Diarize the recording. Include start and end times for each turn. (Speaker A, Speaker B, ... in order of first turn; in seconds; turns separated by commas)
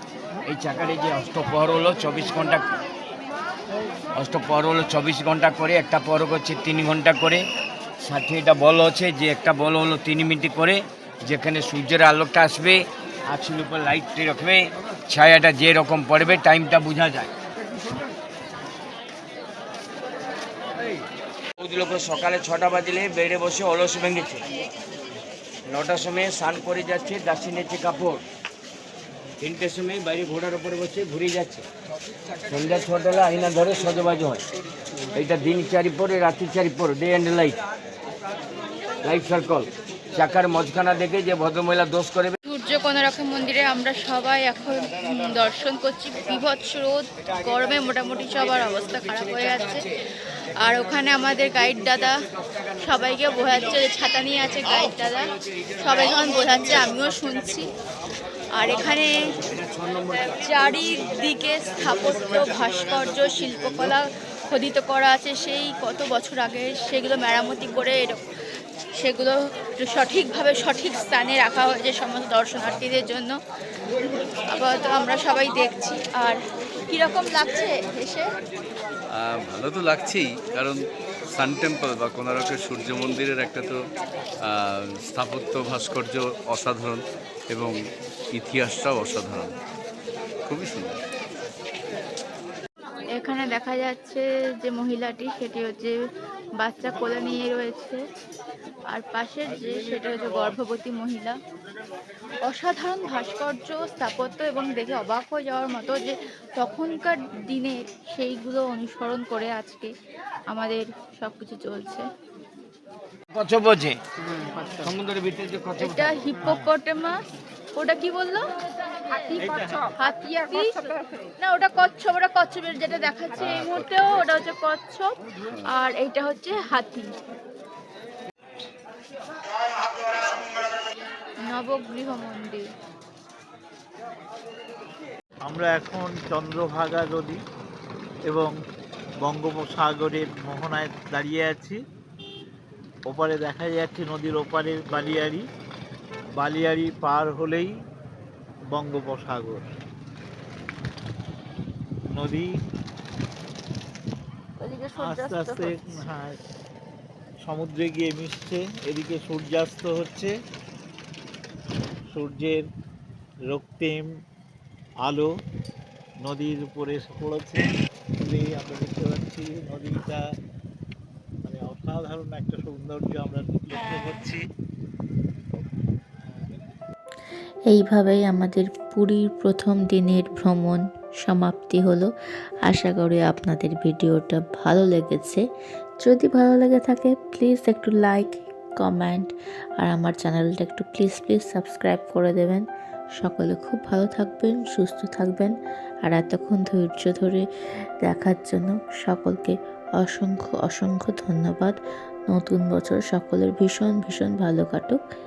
Speaker A: 0.5-2.7, Speaker A: 4.1-7.5, Speaker A: 8.0-17.3, Speaker A: 21.6-24.4, Speaker A: 25.7-28.2, Speaker A: 29.4-31.6, Speaker A: 32.5-34.4, Speaker A: 35.1-37.6, Speaker A: 39.0-42.4, Speaker B: 42.4-49.9, Speaker B: 50.6-52.1, Speaker B: 52.8-57.7, Speaker B: 58.5-59.1, Speaker A: 59.4-60.4, Speaker B: 60.3-68.2, Speaker B: 69.0-73.3, Speaker B: 74.5-78.3, Speaker C: 79.1-80.8, Speaker C: 81.3-83.8, Speaker C: 84.5-87.8, Speaker C: 88.3-89.5, Speaker C: 90.5-91.0, Speaker B: 93.2-96.0, Speaker B: 96.6-98.0, Speaker B: 98.9-101.3, Speaker B: 102.5-109.9, Speaker B: 110.5-112.0, Speaker A: 113.3-114.0, Speaker A: 114.8-116.4, Speaker B: 115.8-117.2, Speaker B: 117.7-118.5, Speaker B: 119.0-127.1, Speaker B: 131.4-132.7, Speaker D: 135.4-137.4, Speaker D: 138.3-138.5, Speaker D: 139.2-141.8, Speaker D: 143.1-145.4, Speaker D: 146.4-147.7, Speaker D: 148.7-149.7, Speaker D: 152.1-152.5, Speaker B: 154.6-156.0, Speaker D: 154.9-156.4, Speaker D: 157.4-160.3, Speaker D: 162.1-162.6, Speaker D: 163.5-164.1, Speaker D: 165.0-165.3, Speaker D: 166.2-170.2, Speaker D: 171.4-174.4, Speaker E: 177.7-182.1, Speaker E: 182.7-185.4, Speaker E: 186.0-192.6, Speaker E: 193.2-195.5, Speaker E: 196.1-197.4, Speaker E: 198.1-201.7, Speaker E: 202.3-205.0